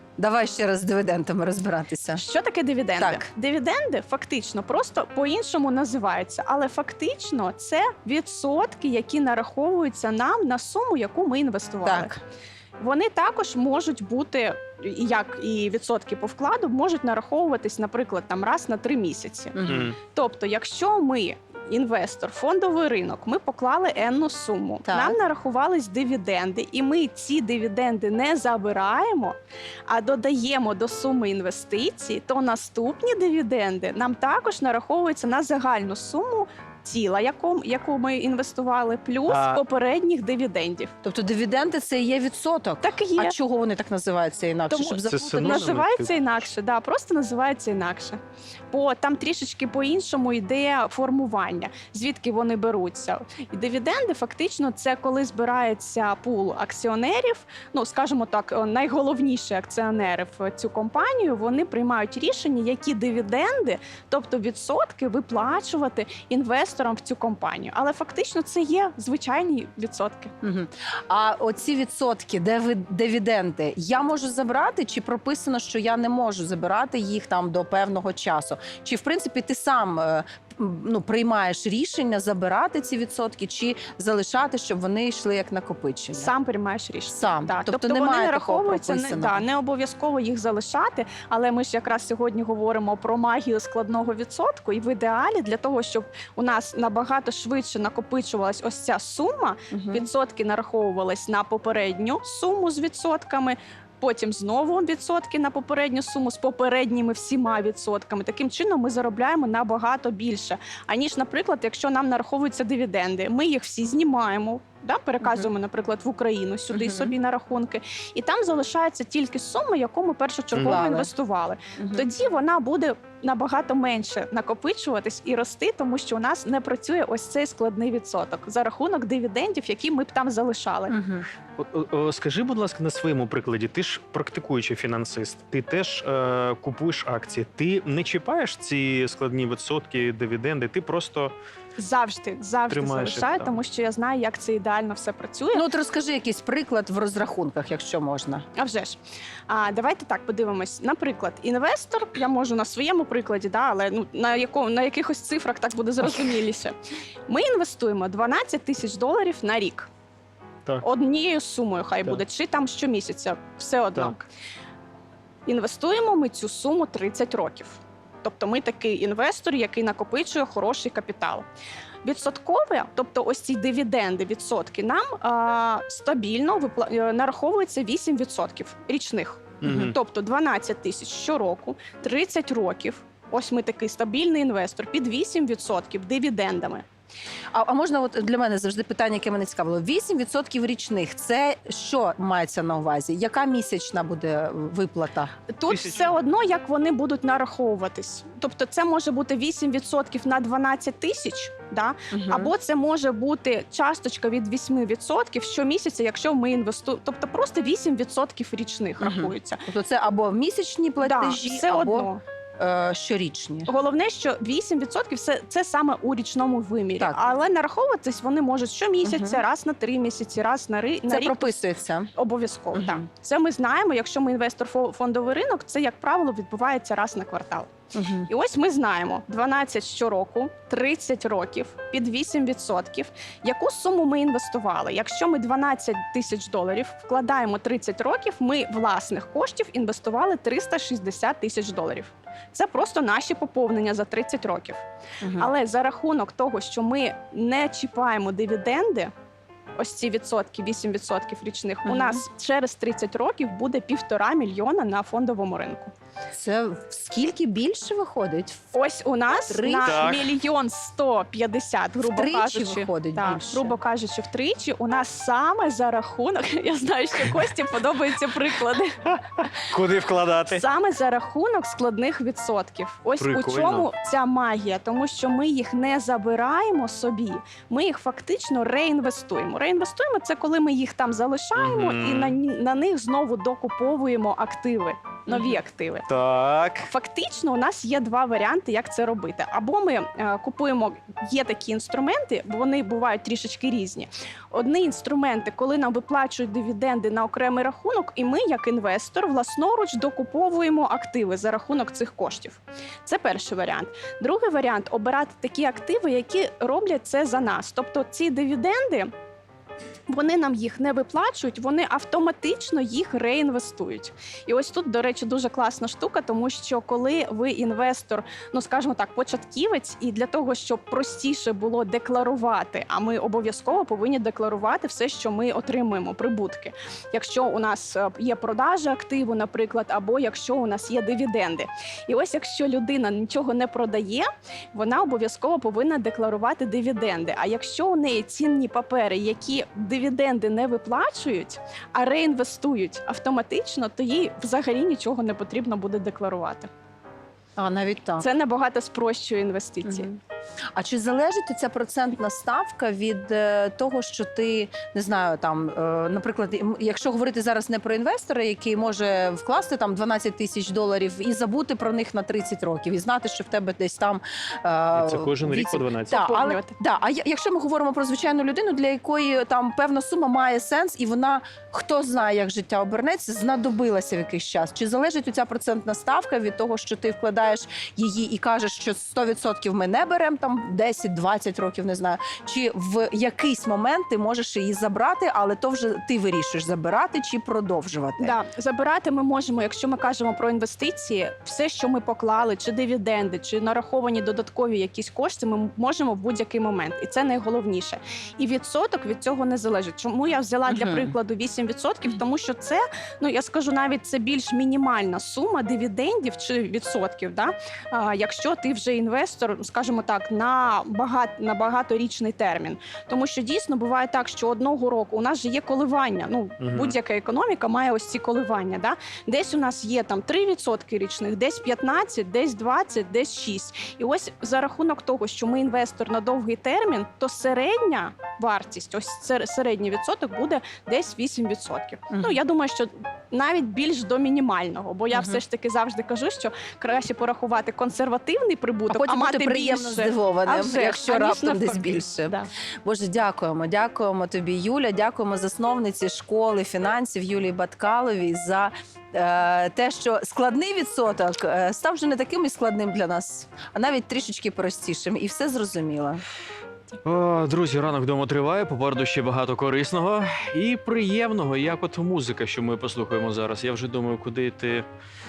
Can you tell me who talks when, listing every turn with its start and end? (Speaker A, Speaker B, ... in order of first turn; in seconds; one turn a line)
Speaker A: 0.2-2.2
Speaker B: 2.2-12.2
Speaker A: 3.0-3.2
Speaker A: 11.8-12.1
Speaker B: 12.8-40.9
Speaker A: 19.6-19.9
Speaker C: 19.7-20.0
Speaker A: 24.9-25.2
Speaker C: 39.3-39.6
Speaker A: 41.0-45.8
Speaker B: 42.8-43.4
Speaker B: 44.7-48.2
Speaker C: 45.0-46.4
Speaker B: 48.7-70.3
Speaker A: 70.4-86.3
Speaker B: 86.2-130.9
Speaker A: 87.1-89.4
Speaker A: 99.7-100.1
Speaker A: 115.2-115.5
Speaker A: 116.7-117.1
Speaker C: 120.5-120.8
Speaker A: 120.6-121.1
Speaker A: 121.8-122.1
Speaker A: 130.9-131.3
Speaker C: 131.6-141.3
Speaker B: 141.8-145.7
Speaker C: 142.7-143.5
Speaker A: 145.5-148.4
Speaker B: 148.6-156.8
Speaker B: 157.3-159.9
Speaker B: 160.8-164.2
Speaker B: 165.5-171.5
Speaker B: 172.0-186.8
Speaker C: 179.6-179.9
Speaker A: 179.6-179.9
Speaker A: 187.5-195.3
Speaker B: 195.5-209.6
Speaker C: 195.7-196.2
Speaker A: 202.1-202.5
Speaker A: 209.0-213.7
Speaker B: 211.0-212.2
Speaker B: 213.7-221.6
Speaker A: 219.0-219.4
Speaker A: 221.1-222.1
Speaker B: 222.2-227.7
Speaker A: 222.7-223.1
Speaker A: 227.9-228.3
Speaker B: 228.3-249.1
Speaker A: 245.2-245.5
Speaker B: 249.8-255.9
Speaker A: 251.8-252.2
Speaker A: 256.3-258.7
Speaker B: 258.7-269.0
Speaker A: 259.5-260.2
Speaker C: 259.9-260.2
Speaker A: 262.0-263.8
Speaker C: 269.1-270.6
Speaker B: 270.5-286.1
Speaker C: 273.2-273.9
Speaker C: 281.6-282.4
Speaker A: 285.3-285.6
Speaker C: 286.1-286.9
Speaker B: 286.9-309.1
Speaker B: 310.1-346.7
Speaker A: 347.6-348.3
Speaker B: 348.2-350.1
Speaker A: 350.8-388.4
Speaker C: 364.9-366.2
Speaker B: 366.1-366.7
Speaker B: 388.2-442.5
Speaker A: 400.7-401.1
Speaker C: 416.6-417.0
Speaker A: 432.1-432.4
Speaker A: 435.1-435.4
Speaker A: 438.9-456.2
Speaker C: 457.0-464.9